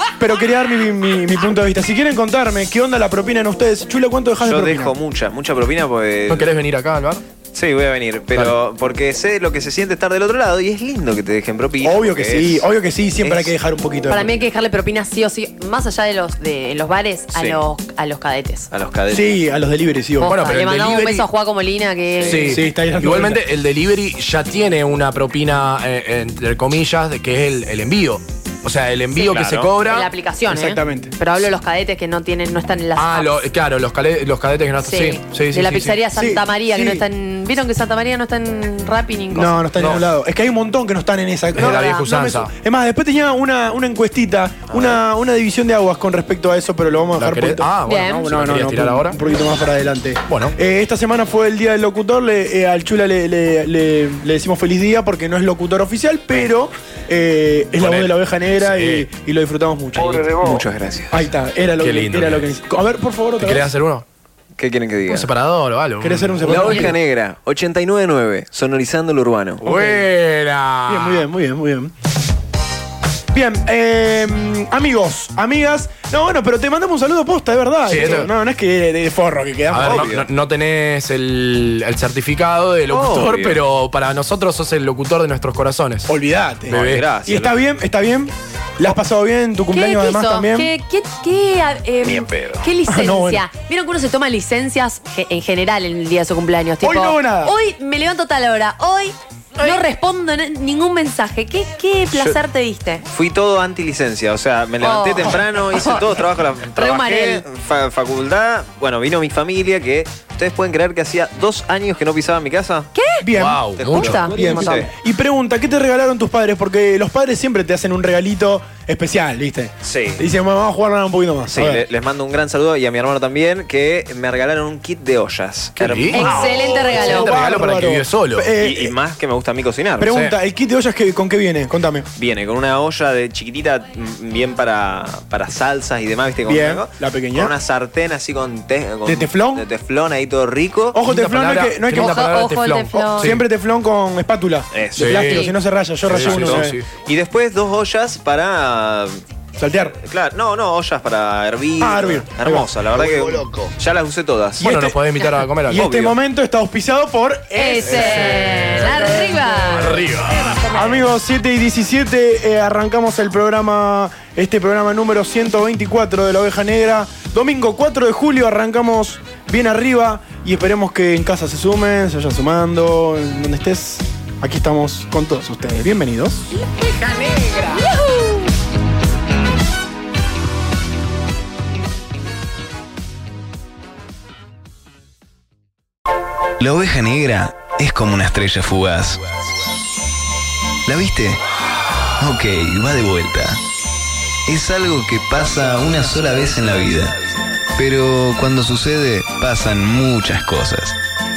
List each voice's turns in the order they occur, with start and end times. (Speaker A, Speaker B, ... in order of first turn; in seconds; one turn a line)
Speaker A: 0.2-5.0
Speaker B: 4.4-6.5
Speaker C: 6.3-7.2
Speaker B: 7.5-12.6
Speaker A: 11.8-14.4
Speaker B: 13.2-13.5
Speaker D: 14.1-18.7
Speaker B: 17.3-17.6
Speaker B: 18.7-19.4
Speaker A: 19.1-20.3
Speaker D: 20.2-22.5
Speaker C: 20.3-21.3
Speaker B: 22.2-22.6
Speaker C: 22.3-30.1
Speaker A: 22.5-23.4
Speaker D: 29.1-33.4
Speaker B: 29.3-29.7
Speaker A: 30.5-31.1
Speaker C: 33.0-36.0
Speaker D: 34.8-39.6
Speaker A: 36.1-37.0
Speaker A: 39.3-63.7
Speaker C: 39.8-40.0
Speaker C: 41.6-42.5
Speaker D: 41.6-42.0
Speaker C: 47.2-49.2
Speaker D: 47.9-48.3
Speaker C: 50.3-50.5
Speaker C: 57.8-59.1
Speaker B: 60.0-61.3
Speaker C: 61.8-62.5
Speaker C: 63.4-64.0
Speaker B: 64.6-65.3
Speaker C: 65.1-66.9
Speaker A: 66.0-67.0
Speaker B: 66.4-69.7
Speaker C: 69.6-71.2
Speaker A: 69.6-70.0
Speaker A: 70.9-71.9
Speaker A: 73.3-80.1
Speaker C: 77.9-78.3
Speaker B: 77.9-78.2
Speaker C: 79.7-86.1
Speaker B: 79.8-80.3
Speaker B: 82.9-83.6
Speaker A: 86.1-90.7
Speaker B: 86.7-87.6
Speaker C: 86.7-87.1
Speaker D: 89.7-103.0
Speaker A: 92.9-93.4
Speaker A: 96.8-97.5
Speaker B: 102.1-102.4
Speaker B: 103.1-112.9
Speaker D: 104.8-106.1
Speaker D: 106.7-107.4
Speaker D: 113.0-113.3
Speaker A: 113.2-113.7
Speaker C: 113.4-114.2
Speaker B: 113.8-114.9
Speaker D: 113.9-114.8
Speaker A: 114.3-121.9
Speaker B: 119.8-120.2
Speaker B: 121.5-127.1
Speaker C: 125.8-128.5
Speaker D: 126.1-127.3
Speaker A: 126.3-128.9
Speaker B: 128.6-130.1
Speaker A: 130.0-132.1
Speaker C: 130.1-130.3
Speaker B: 132.2-141.0
Speaker A: 136.4-137.5
Speaker A: 139.1-139.7
Speaker A: 140.9-142.4
Speaker C: 141.1-143.4
Speaker D: 142.0-143.3
Speaker A: 143.1-146.7
Speaker B: 144.7-145.4
Speaker C: 145.0-145.5
Speaker D: 145.2-145.5
Speaker C: 146.1-146.9
Speaker B: 146.2-149.2
Speaker A: 149.6-150.0
Speaker B: 150.0-154.7
Speaker A: 151.8-152.7
Speaker A: 154.6-155.0
Speaker C: 154.6-155.9
Speaker A: 155.7-159.7
Speaker B: 155.7-156.2
Speaker D: 157.5-160.0
Speaker C: 157.8-160.7
Speaker A: 160.6-176.5
Speaker E: 186.6-189.2
Speaker E: 190.9-191.4
Speaker E: 192.2-193.6
Speaker E: 194.5-197.2
Speaker E: 197.8-201.0